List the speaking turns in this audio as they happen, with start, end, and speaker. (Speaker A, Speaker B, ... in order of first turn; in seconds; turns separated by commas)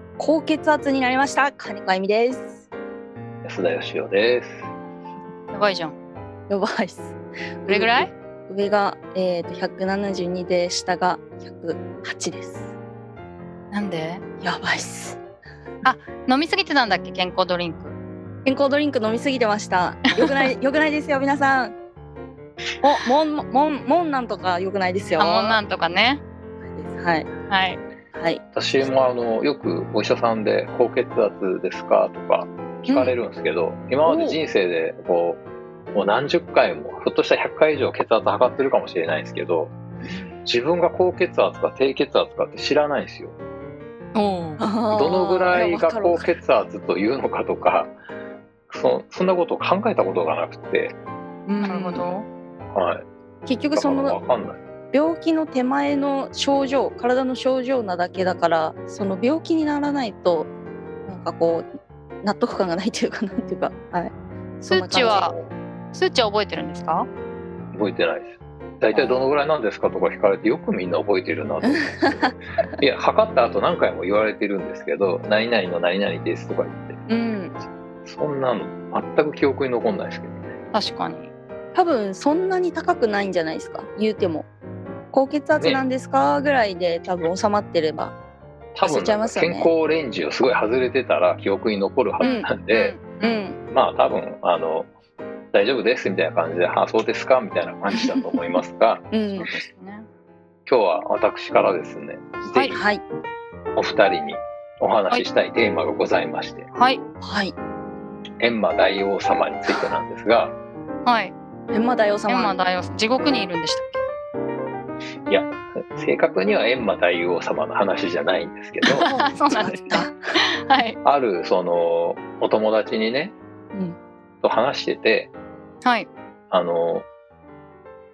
Speaker A: 0.2-2.7, Speaker B: 3.4-4.7, Speaker C: 5.5-6.0, Speaker A: 6.5-12.7, Speaker C: 7.7-8.1, Speaker C: 13.7-14.2, Speaker A: 14.4-15.2, Speaker C: 15.8-18.0, Speaker A: 18.4-21.8, Speaker A: 22.8-25.6, Speaker C: 25.2-26.2, Speaker A: 26.7-27.3, Speaker C: 27.5-27.8, Speaker A: 28.1-28.9, Speaker B: 28.6-35.4, Speaker A: 32.9-33.2, Speaker A: 34.0-34.4, Speaker B: 35.9-39.7, Speaker A: 40.1-40.4, Speaker B: 40.5-43.4, Speaker C: 44.1-44.6, Speaker A: 44.6-46.3, Speaker B: 44.9-47.9, Speaker B: 48.7-51.0, Speaker A: 51.5-52.1, Speaker C: 51.6-52.3, Speaker B: 52.7-53.0, Speaker A: 53.5-54.2, Speaker B: 53.7-54.6, Speaker A: 54.9-60.5, Speaker A: 61.1-61.7, Speaker A: 62.2-65.3, Speaker C: 64.7-65.3, Speaker B: 65.2-65.5, Speaker C: 65.9-67.1, Speaker B: 67.7-77.0, Speaker A: 68.9-69.3, Speaker A: 71.6-72.6, Speaker A: 77.1-77.6, Speaker B: 78.0-80.5, Speaker C: 80.7-81.3, Speaker A: 81.7-84.5, Speaker A: 85.1-88.1, Speaker B: 85.6-85.8, Speaker B: 88.8-93.0, Speaker A: 88.8-89.7, Speaker C: 92.2-93.4, Speaker A: 92.2-92.5, Speaker A: 93.2-93.6, Speaker B: 93.7-94.9, Speaker B: 95.5-99.1, Speaker A: 99.1-99.5, Speaker C: 99.3-100.1, Speaker B: 100.7-102.8, Speaker A: 102.8-103.0, Speaker B: 103.8-106.7, Speaker C: 106.7-107.0, Speaker A: 107.2-107.5, Speaker B: 108.4-110.6, Speaker C: 111.1-111.3, Speaker A: 111.7-112.5, Speaker C: 112.3-114.0, Speaker B: 115.3-119.1, Speaker C: 118.9-120.1, Speaker A: 119.0-120.2, Speaker C: 120.7-121.0, Speaker B: 121.0-123.3, Speaker B: 124.4-125.3, Speaker C: 125.8-126.1, Speaker B: 126.5-127.1